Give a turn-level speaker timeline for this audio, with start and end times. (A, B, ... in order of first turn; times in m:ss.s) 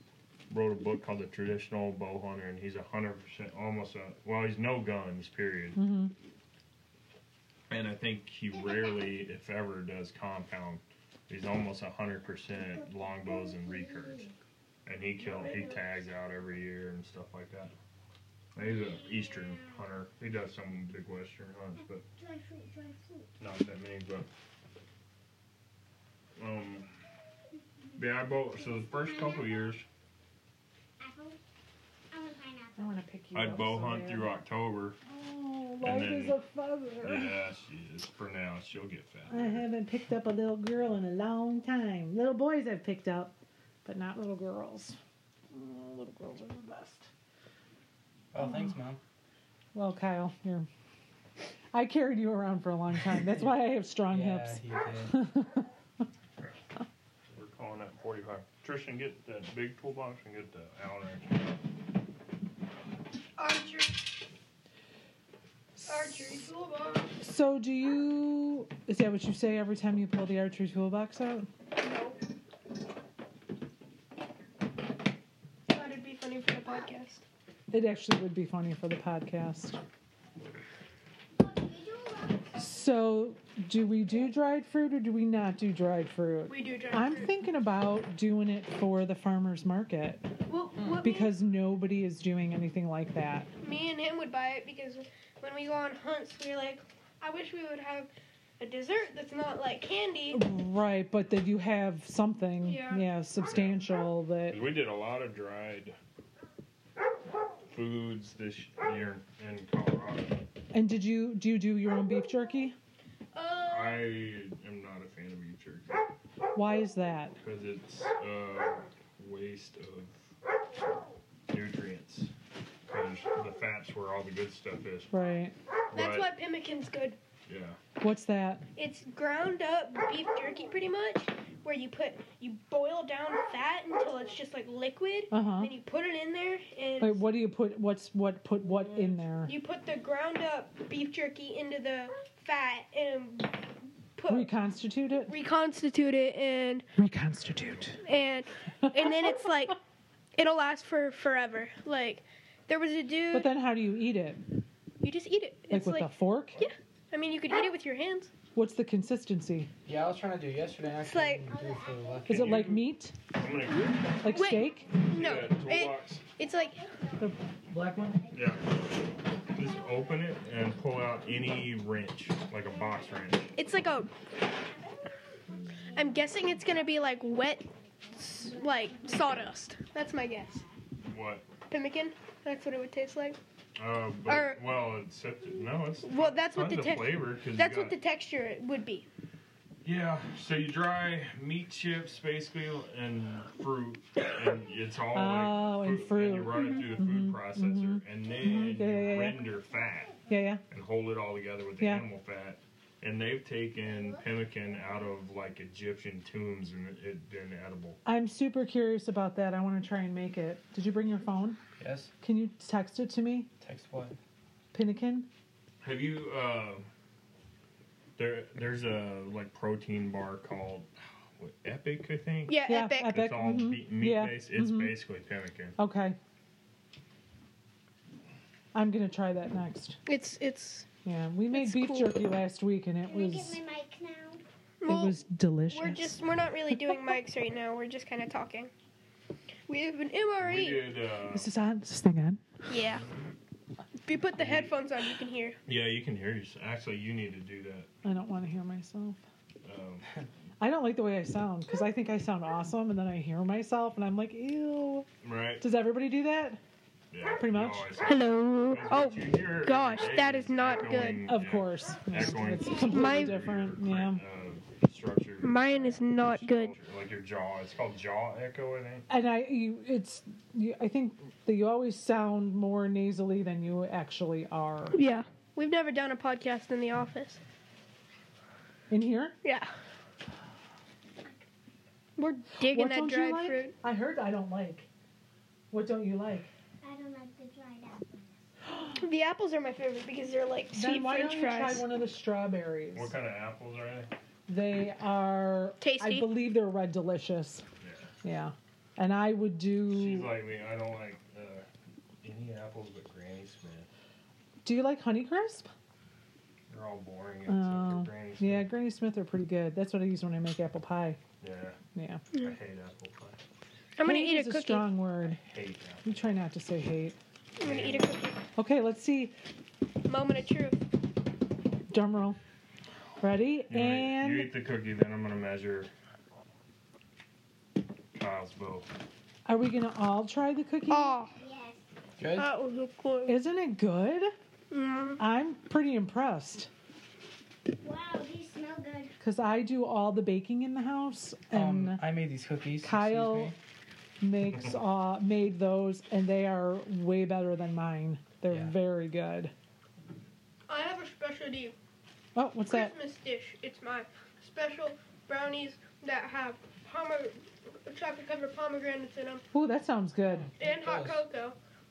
0:00.5-0:05.8 A
0:05.7-0:06.1 B
0:07.7-0:14.3 A
0:08.6-0:08.9 C
0:12.7-0:14.3 C
0:14.8-0:17.7 A
0:15.2-0:15.8 D
0:18.5-0:22.0 A
0:18.6-0:19.8 C
0:22.2-0:23.3 C
0:23.4-0:24.3 A
0:26.4-0:26.9 A
0:28.0-0:29.8 A
0:28.7-0:29.7 C
0:31.0-0:31.4 C
0:32.1-0:32.8 C
0:32.8-0:34.3 B
0:33.3-0:35.0 A
0:35.0-0:37.4 B
0:35.8-0:36.4 A
0:37.0-0:39.6 A
0:39.3-0:43.3 B
0:43.8-0:45.0 B
0:45.5-0:47.1 B
0:48.3-0:49.0 E
0:48.4-0:48.7 B
0:49.7-0:50.7 B
0:51.7-0:55.7 B
0:53.3-0:55.2 E
0:57.3-1:01.5 A
1:03.4-1:04.1 D
1:05.8-1:06.4 B
1:05.8-1:07.1 D
1:07.2-1:11.5 B
1:11.8-1:12.2 D
1:15.7-1:17.2 D
1:17.7-1:19.8 B
1:21.4-1:22.6 C
1:22.6-1:30.2 B
1:26.5-1:27.3 D
1:30.5-1:31.3 D
1:31.0-1:33.5 B
1:33.6-1:40.4 D
1:40.3-1:44.6 B
1:42.6-1:43.0 D
1:43.5-1:43.8 A
1:44.5-1:46.0 A
1:47.7-1:50.4 A
1:50.7-1:52.8 B
1:53.3-1:54.2 D
1:53.7-1:56.0 A
1:56.5-1:57.4 B
1:57.4-2:00.2 A
2:01.5-2:02.3 A
2:02.9-2:05.1 A
2:05.1-2:05.5 B
2:05.9-2:06.3 A
2:05.9-2:07.2 D
2:07.5-2:07.8 A
2:08.0-2:08.6 B
2:08.8-2:17.2 D
2:15.3-2:15.7 B
2:17.0-2:19.5 B
2:19.4-2:23.6 D
2:24.2-2:24.5 D
2:24.3-2:25.3 B
2:25.3-2:26.8 D
2:27.0-2:28.0 B
2:28.0-2:29.8 D
2:28.8-2:29.1 B
2:30.3-2:33.5 D
2:33.3-2:34.4 B
2:35.0-2:38.3 D
2:35.7-2:36.6 B
2:38.5-2:39.7 B
2:39.8-2:42.7 E
2:41.0-2:41.4 D
2:41.5-2:42.2 C
2:42.2-2:44.3 A
2:42.3-2:43.1 B
2:44.2-2:44.9 B
2:44.2-2:46.8 D
2:45.0-2:46.2 A
2:47.7-2:48.2 E
2:48.3-2:48.7 A
2:49.5-2:53.5 A
2:53.5-2:54.1 D
2:55.9-3:00.6 D
3:01.1-3:01.5 A
3:01.7-3:03.4 D
3:03.8-3:07.9 A
3:04.2-3:04.6 D
3:06.0-3:09.1 D
3:09.8-3:20.2 A
3:15.1-3:19.5 B
3:20.3-3:20.6 B
3:20.7-3:28.0 A
3:21.8-3:22.1 B
3:28.0-3:31.6 B
3:31.8-3:32.1 E
3:32.2-3:33.5 B
3:33.6-3:34.2 E
3:34.7-3:35.3 B
3:35.8-3:36.9 A
3:38.2-3:45.8 A
3:42.5-3:43.2 D
3:42.6-3:44.9 B
3:45.8-3:46.2 B
3:48.7-3:50.0 B
3:50.0-3:50.9 D
3:51.0-3:53.6 B
3:51.5-3:52.2 D
3:53.0-3:54.4 C
3:54.8-3:58.7 D
3:54.8-3:56.2 B
3:59.7-4:01.0 D
4:00.4-4:01.5 A
4:01.3-4:02.4 B
4:02.7-4:03.0 D
4:04.0-4:05.6 D
4:04.4-4:04.7 A
4:05.7-4:07.9 A
4:08.0-4:09.2 B
4:09.6-4:10.1 A
4:10.6-4:15.1 B
4:15.2-4:15.6 A
4:15.6-4:16.6 B
4:17.1-4:29.0 A
4:17.3-4:17.9 B
4:18.0-4:21.4 D
4:21.2-4:24.2 B
4:22.5-4:23.0 C
4:22.8-4:23.4 D
4:25.4-4:26.7 D
4:29.1-4:35.0 B
4:34.9-4:37.4 D
4:38.9-4:39.3 B
4:39.4-4:39.7 D
4:42.2-4:43.7 D
4:42.6-4:44.9 B
4:45.7-4:46.5 B
4:46.8-4:48.3 C
4:48.9-4:51.8 D
4:50.7-4:53.1 B
4:52.9-4:54.1 A
4:54.5-4:57.6 B
4:55.8-4:56.3 D
4:57.8-4:58.1 A
4:58.2-5:00.4 B
4:59.9-5:01.7 A
5:02.2-5:03.9 A
5:04.6-5:05.7 B
5:06.7-5:08.7 A
5:07.5-5:11.2 B
5:11.4-5:11.8 A
5:11.9-5:12.2 B
5:12.3-5:13.4 A
5:14.0-5:14.9 D
5:14.0-5:15.4 B
5:15.4-5:16.0 A
5:16.0-5:17.2 B
5:17.6-5:18.4 D
5:17.6-5:18.1 A
5:18.6-5:19.3 B
5:20.0-5:20.8 D
5:21.9-5:22.4 B
5:23.2-5:24.5 B
5:23.7-5:25.9 A
5:28.1-5:28.9 A
5:29.4-5:31.2 B
5:30.9-5:31.3 D
5:31.4-5:31.8 C
5:32.2-5:32.5 E
5:32.4-5:33.4 D
5:33.2-5:34.3 B
5:34.7-5:35.2 D
5:35.2-5:36.7 B
5:37.8-5:39.1 C
5:39.2-5:42.1 B
5:41.5-5:43.6 E
5:42.8-5:43.5 B
5:44.2-5:49.5 B
5:50.7-5:51.7 D
5:52.3-5:52.9 B
5:52.7-5:59.4 D
5:59.5-6:00.5 B
6:00.4-6:01.2 E
6:00.6-6:01.6 D